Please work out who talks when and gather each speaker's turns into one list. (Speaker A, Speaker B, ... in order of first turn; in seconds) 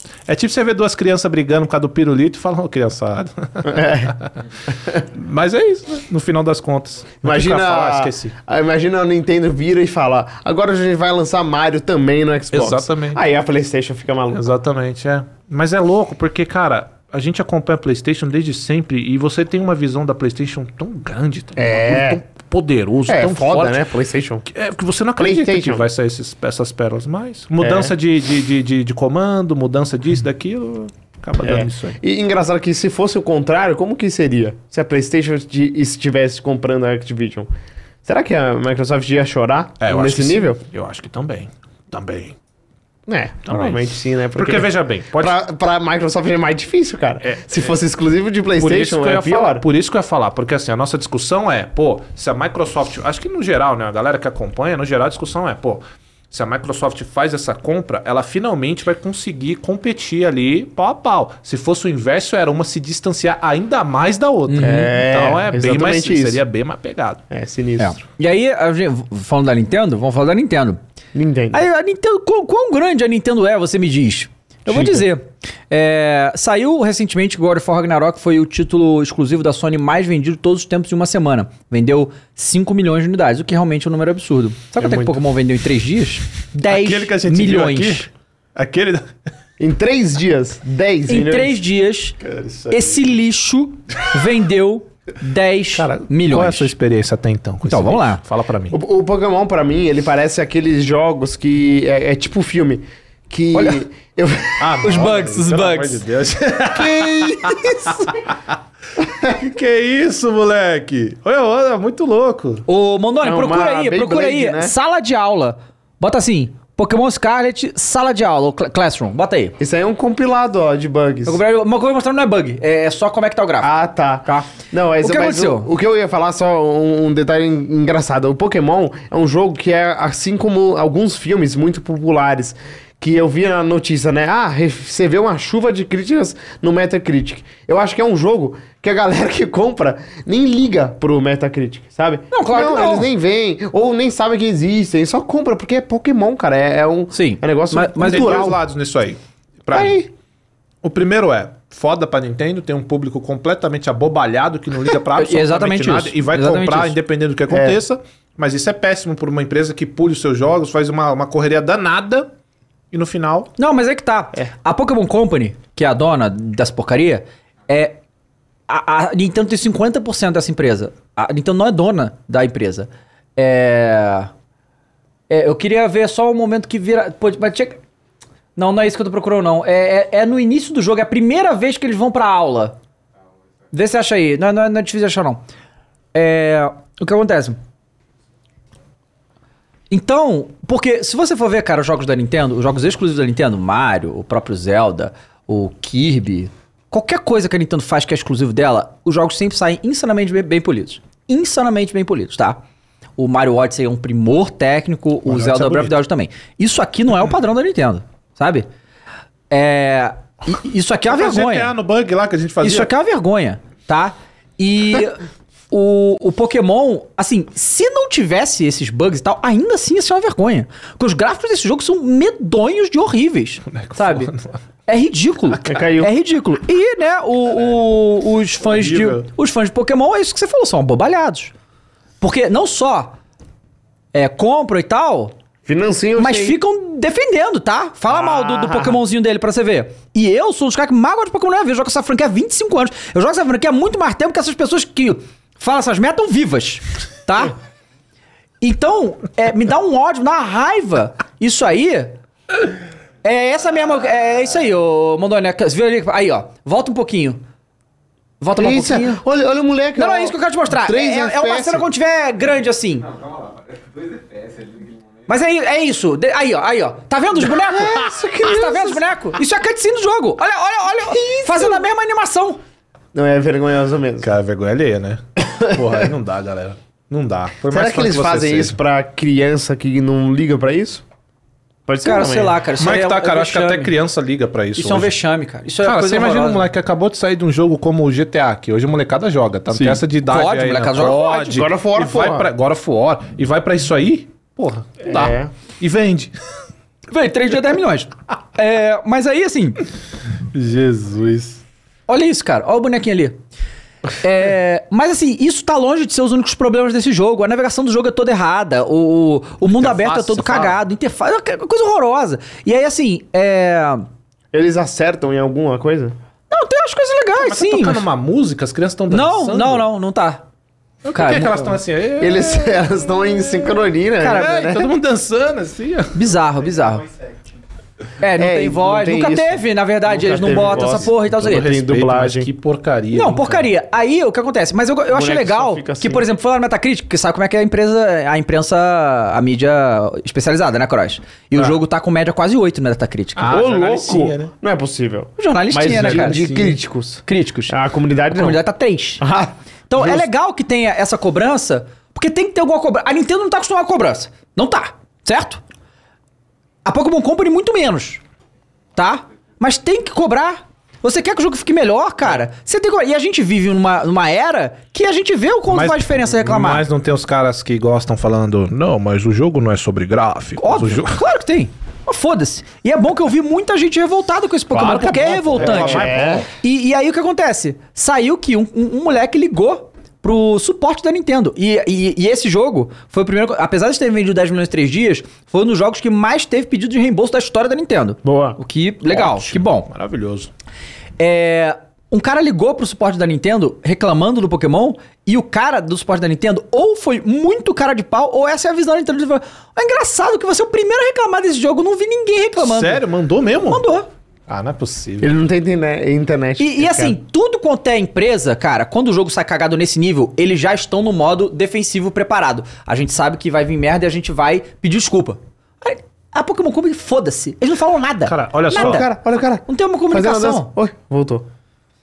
Speaker A: 0.3-4.3, 5.0-8.3, 12.5-13.2, 14.3-23.8, 24.5-32.0, 39.8-42.4, 43.5-45.4, 47.2-47.7, 48.6-67.2, 84.8-85.2, 86.7-89.1, 92.2-93.1, 95.7-98.8, 104.6-108.3, 109.3-112.7, 148.0-150.1, 150.8-162.3, 162.9-163.5, 205.2-206.0, 211.1-212.9, 223.7-224.6, 228.6-229.3, 274.2-278.8, 282.8-285.1, 285.8-296.3, 300.5-301.6, 309.6-310.8, 317.4-319.9, 321.0-322.8, 324.3-326.3, 330.2-333.7, 343.4-344.5, 345.8-346.8, 365.7-371.2, 374.7-376.5, 389.2-390.5, 402.6-403.8, 404.5-405.3, 418.3-419.1
Speaker B: 3.6-4.1, 7.2-14.4, 21.6-22.2, 23.1-24.5, 25.2-25.9, 27.6-27.9, 31.4-37.5, 38.0-40.6, 43.1-49.6, 64.6-66.4, 67.3-68.0, 71.1-71.7, 89.6-91.6, 98.7-105.1, 106.7-108.2, 109.0-109.5, 113.2-114.8, 119.6-121.4, 123.6-148.6, 149.7-150.1, 157.5-157.8, 225.7-226.1, 235.7-236.6, 238.1-239.0, 258.6-261.9, 267.8-269.1, 271.0-271.8, 273.1-274.3, 275.4-276.1, 277.7-281.0, 281.9-282.6, 291.1-292.5, 295.1-295.5, 314.5-316.1, 322.2-324.9, 328.4-332.5, 335.1-336.2, 343.5-348.6, 349.2-350.2, 375.6-376.5, 388.2-388.6, 405.2-407.2, 418.7-421.5
Speaker C: 64.5-64.9, 67.8-70.8, 71.5-88.1, 91.1-92.2, 92.7-96.7, 97.7-98.2, 103.5-103.8, 104.8-106.0, 112.7-119.6, 121.2-123.7, 124.2-125.7, 142.3-143.1, 147.1-148.5, 155.1-157.0, 163.6-168.0, 168.7-174.3, 175.3-177.8, 178.6-182.8, 183.7-185.4, 186.1-187.6, 189.9-202.6, 203.2-208.7, 209.5-211.7, 212.6-224.3, 224.9-231.5, 232.2-233.2, 234.1-235.3, 236.2-247.6, 248.6-252.2, 253.2-257.4, 258.4-259.2, 259.9-263.1, 265.3-272.6, 282.0-283.9, 284.8-286.7, 289.7-291.2, 297.1-299.8, 302.1-303.4, 304.2-314.1, 316.5-318.0, 319.1-320.4, 321.1-321.8, 324.2-324.5, 326.1-327.1, 328.2-331.7, 333.1-343.6, 345.4-346.5, 347.3-347.8, 348.3-349.2, 349.9-355.6, 356.9-358.2, 359.0-366.9, 370.6-389.9, 391.2-403.0, 403.6-404.1, 406.6-419.1, 419.7-420.7